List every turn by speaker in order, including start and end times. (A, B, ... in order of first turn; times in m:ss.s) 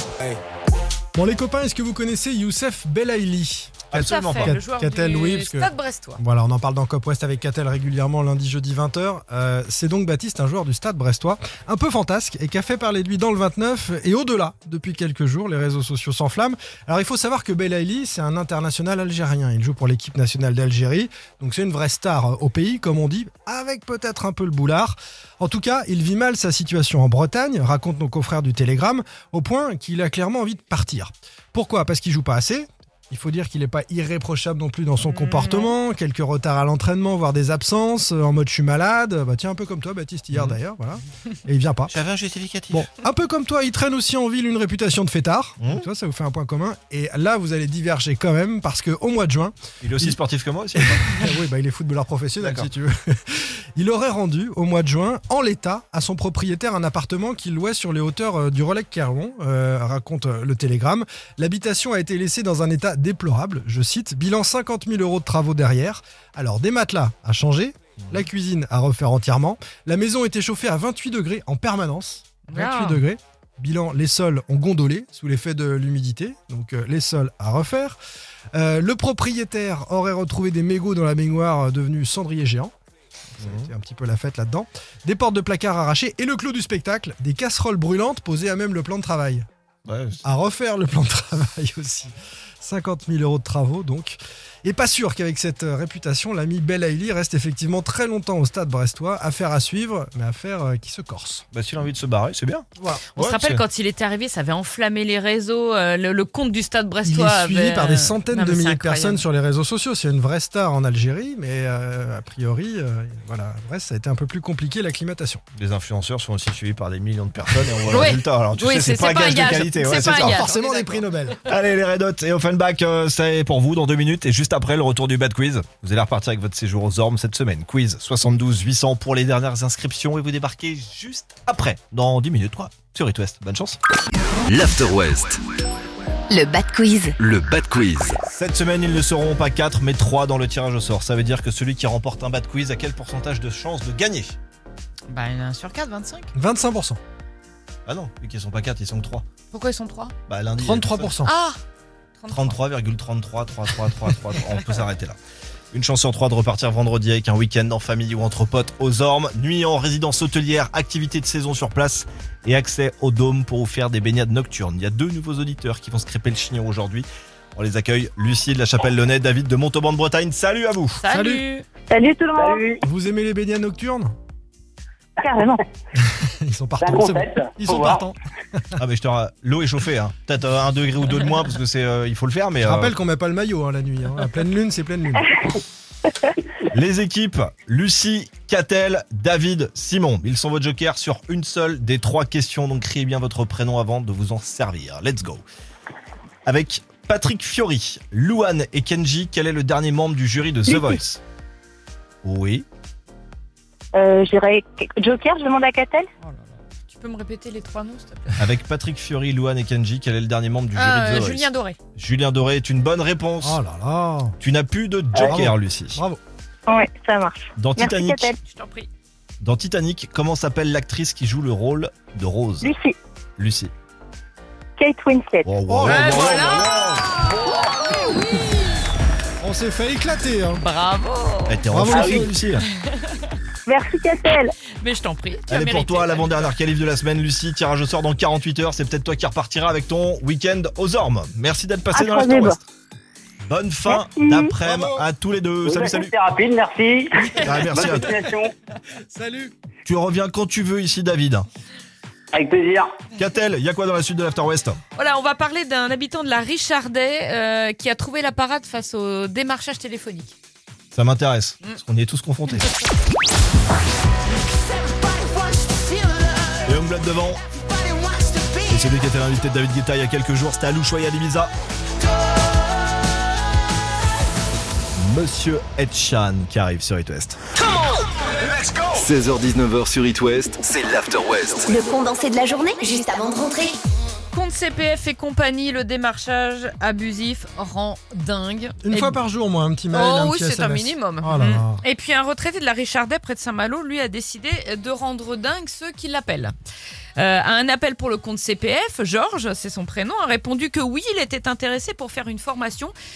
0:01.1-0:41.9 A
0:03.9-0:04.6 B
0:03.9-0:06.2 C
0:35.1-0:35.7 C
0:40.3-0:40.6 B
0:41.9-0:42.9 B
0:42.7-0:50.2 A
0:45.6-0:45.8 B
0:49.8-0:51.3 B
0:50.7-1:18.0 A
0:52.4-0:52.7 B
1:12.5-1:13.0 C
1:18.5-1:22.7 A
1:23.4-1:29.4 A
1:23.4-1:23.7 B
1:29.8-1:30.2 B
1:30.2-1:41.4 A
1:41.5-1:43.6 B
1:42.8-1:43.0 A
1:43.2-1:49.2 C
1:47.0-1:55.4 A
1:55.6-2:00.4 B
1:57.9-2:01.1 C
1:59.8-2:01.4 A
2:01.5-2:13.8 B
2:14.4-2:15.4 D
2:16.3-2:17.2 E
2:17.2-2:18.2 D
2:18.2-2:24.3 B
2:25.1-2:26.3 C
2:26.3-2:27.0 A
2:27.8-2:29.2 B
2:29.5-2:30.1 C
2:30.3-2:31.1 B
2:30.6-2:31.3 A
2:31.2-2:31.6 C
2:32.2-2:32.6 C
2:32.3-2:35.2 B
2:35.7-2:51.0 B
2:51.0-2:51.6 C
2:51.1-2:51.4 A
2:51.9-2:52.6 F
2:52.4-2:52.8 G
2:52.8-2:54.1 A
2:55.2-2:55.6 F
2:56.0-2:58.6 A
2:56.8-2:58.0 G
2:58.8-3:02.9 B
3:02.6-3:05.4 A
3:06.7-3:15.4 B
3:16.4-3:21.2 B
3:20.7-3:21.0 F
3:22.2-3:22.6 B
3:23.9-3:26.1 F
3:26.2-3:28.4 C
3:28.4-3:33.6 B
3:30.7-3:31.8 C
3:33.4-3:34.4 A
3:34.4-3:36.0 B
3:35.1-3:36.2 A
3:36.7-3:38.3 F
3:37.6-3:38.4 B
3:38.4-3:38.9 C
3:39.4-3:42.7 B
3:42.6-3:43.0 F
3:43.4-3:43.7 B
3:44.8-3:45.5 F
3:45.4-3:47.1 B
3:45.7-3:46.2 A
3:45.8-3:48.8 C
3:49.4-3:50.6 A
3:50.6-3:52.0 C
3:51.5-3:52.6 B
3:51.7-3:52.4 A
3:51.9-3:52.2 G
3:53.7-3:54.5 F
3:54.8-3:56.5 C
3:55.5-4:02.6 B
4:01.9-4:02.6 F
4:03.4-4:06.1 B
4:03.9-4:04.5 F
4:04.6-4:05.0 A
4:05.6-4:08.5 G
4:07.4-4:08.2 B
4:07.7-4:08.1 A
4:09.0-4:09.5 A
4:09.8-4:11.5 B
4:12.3-4:13.0 G
4:13.2-4:14.8 B
4:14.9-4:20.3 C
4:20.9-4:22.7 B
4:26.6-4:27.4 B
4:28.7-4:31.5 B
4:35.0-4:37.4 B
4:38.7-4:41.8 D
4:41.6-4:43.8 E
4:44.3-4:49.2 C
4:48.8-4:51.8 A
4:49.9-4:56.5 C
4:57.2-5:02.9 C